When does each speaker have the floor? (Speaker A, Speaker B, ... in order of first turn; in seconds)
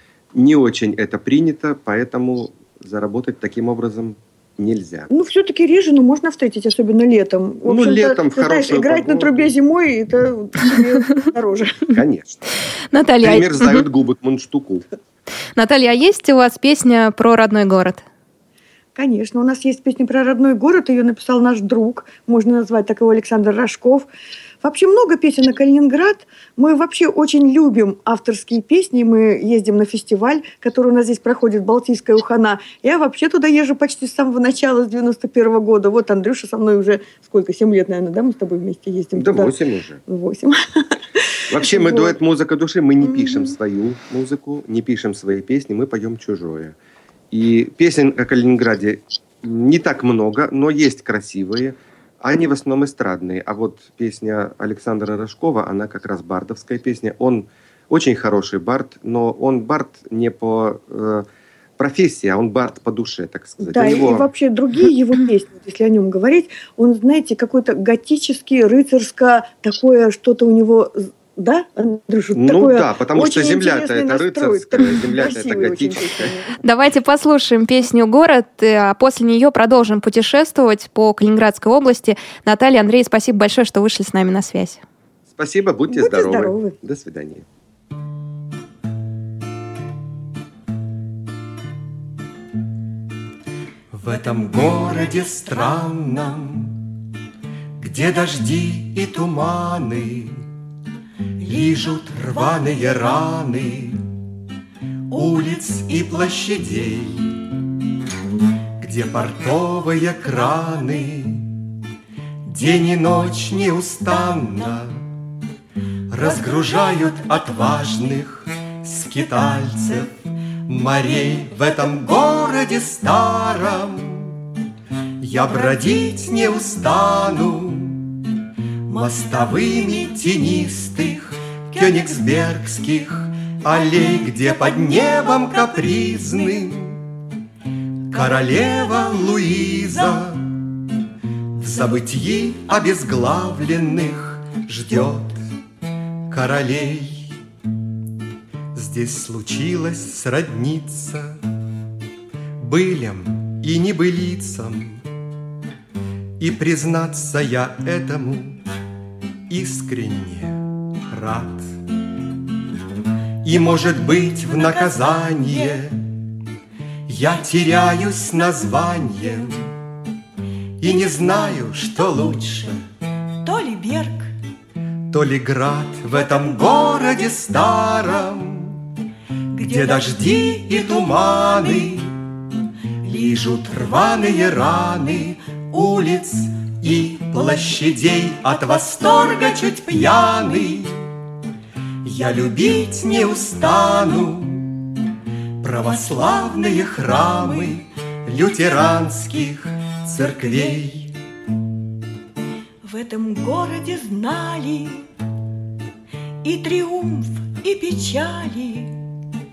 Speaker A: 0.3-5.1, 7.6-9.5, 11.9-12.4, 13.2-14.8, 39.1-40.0, 41.5-46.7, 47.3-61.3, 61.8-64.3, 72.3-76.4, 85.3-87.4
Speaker B: 5.1-12.0, 18.9-24.1, 24.6-39.5, 40.0-40.5, 41.5-42.2, 43.0-43.5, 63.6-76.5, 85.9-86.8
Speaker C: 12.9-13.8, 15.6-18.0, 76.6-84.8
Speaker D: 93.9-96.8, 97.8-100.4, 101.4-104.0, 105.1-107.3, 108.8-111.5, 112.5-115.0, 116.1-120.1, 120.7-124.4, 125.2-128.1, 128.9-137.0, 138.1-140.5, 141.6-145.4, 146.3-147.3, 148.7-151.4, 152.6-155.0, 156.4-158.6, 159.5-161.7, 163.4-166.0, 167.1-169.6, 170.8-172.7, 175.1-178.8, 179.6-182.1, 183.1-190.9, 192.0-194.7, 195.6-201.1
Speaker E: 105.2-105.5, 116.2-118.1, 121.1-122.0, 129.7-130.1, 131.7-132.5, 133.7-136.5, 138.3-139.3, 163.6-165.8, 170.8-172.7, 173.4-174.3, 176.2-177.3, 179.5-180.5, 188.7-190.0, 196.1-196.5, 202.8-205.1, 206.4-209.0